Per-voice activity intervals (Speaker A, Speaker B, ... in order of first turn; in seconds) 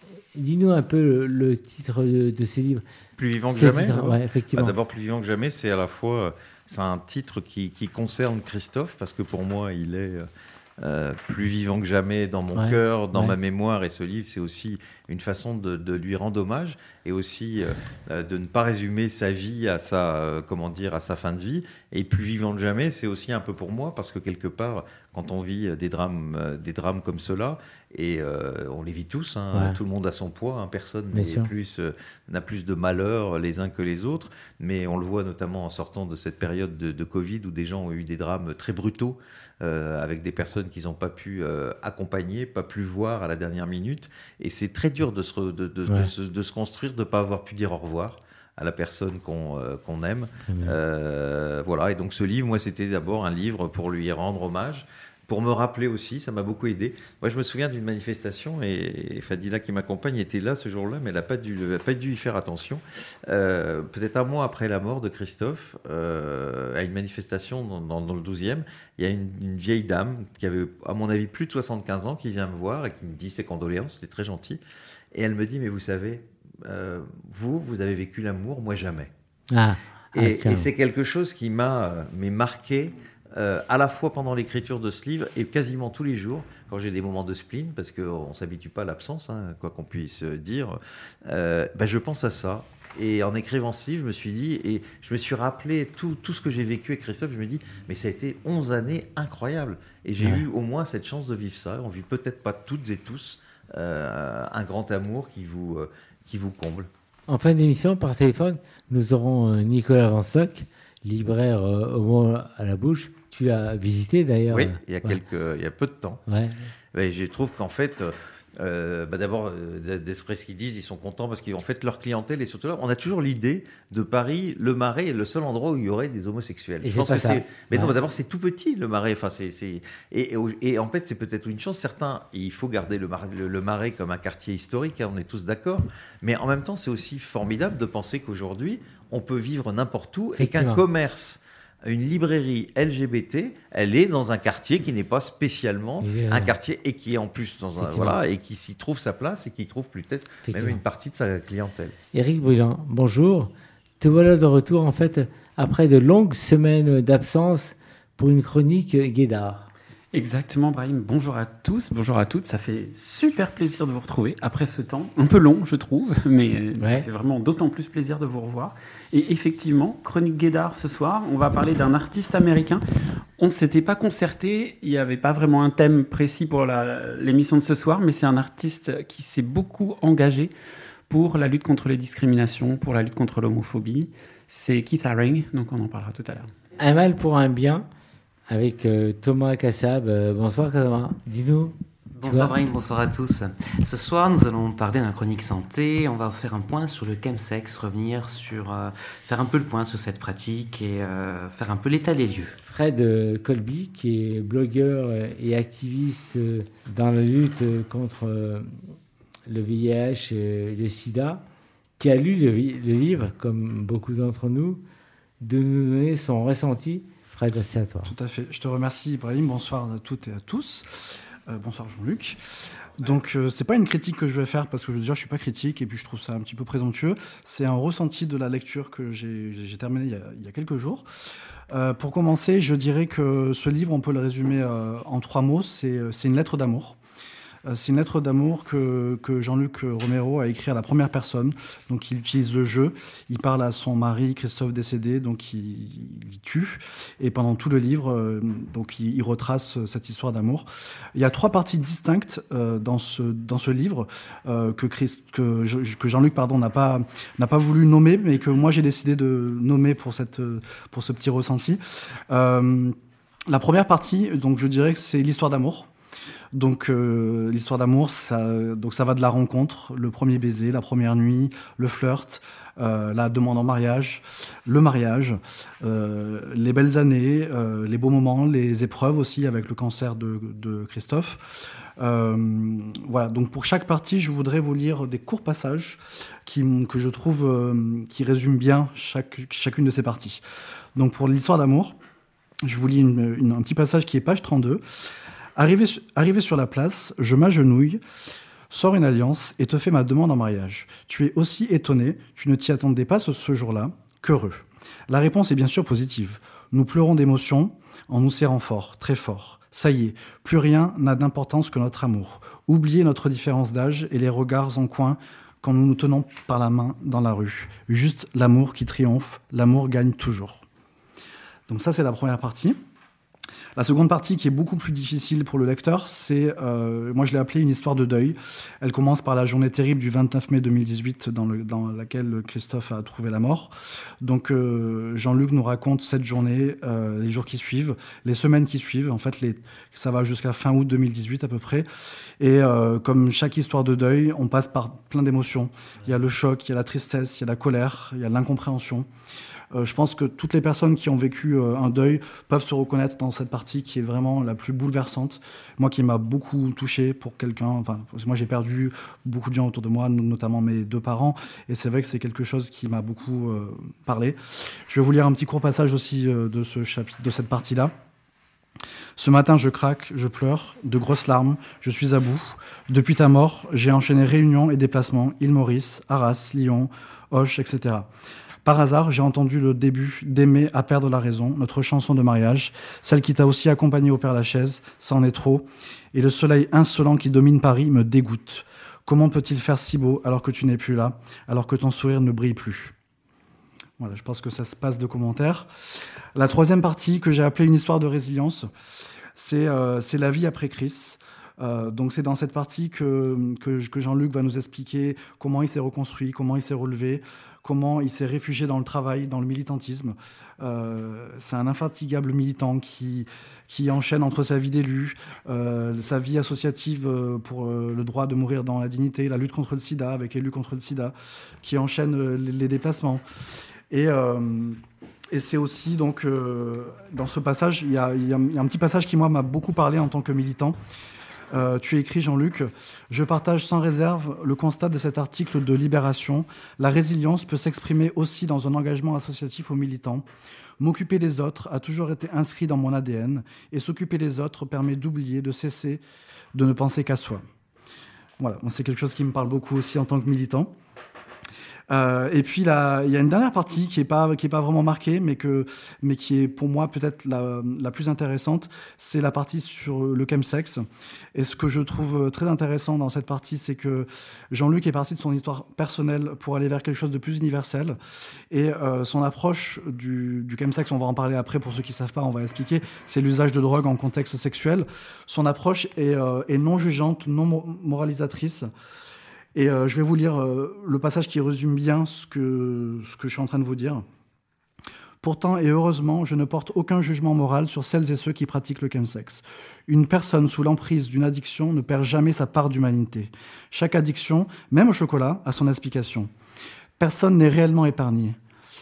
Speaker A: 0.3-2.8, 3.5-4.8, 12.5-13.4, 31.1-31.5, 50.5-50.8, 79.5-80.7, 100.2-100.5, 107.3-115.2, 116.3-116.7, 126.8-127.9, 140.4-140.8, 146.0-146.6, 147.8-148.2, 150.4-150.8, 152.1-159.7, 166.8-167.1, 186.8-187.9, 188.5-192.5, 202.6-208.8, 209.5-211.4, 212.0-214.8, 215.4-218.1
Speaker B: 3.2-10.3, 10.8-74.6, 75.1-79.1, 80.1-106.9, 114.5-116.2, 116.9-151.9
Speaker C: 160.1-172.8, 173.4-180.5, 181.1-186.5
Speaker D: 192.2-202.6
Speaker E: 218.1-222.4, 223.0-231.1, 231.7-237.0, 237.7-263.0, 263.5-265.9, 266.5-290.4, 291.0-292.0, 292.6-294.8, 295.6-298.0, 298.7-320.6, 321.7-322.8, 323.8-341.9, 342.4-349.1, 349.7-367.9, 369.2-378.1, 378.6-392.9, 394.0-398.7, 399.4-423.2, 423.9-424.8, 425.3-430.8, 431.5-440.3, 440.8-446.0, 446.6-447.4, 448.4-450.7, 451.9-468.0, 468.5-478.7, 479.6-484.1, 485.2-496.3, 497.0-498.4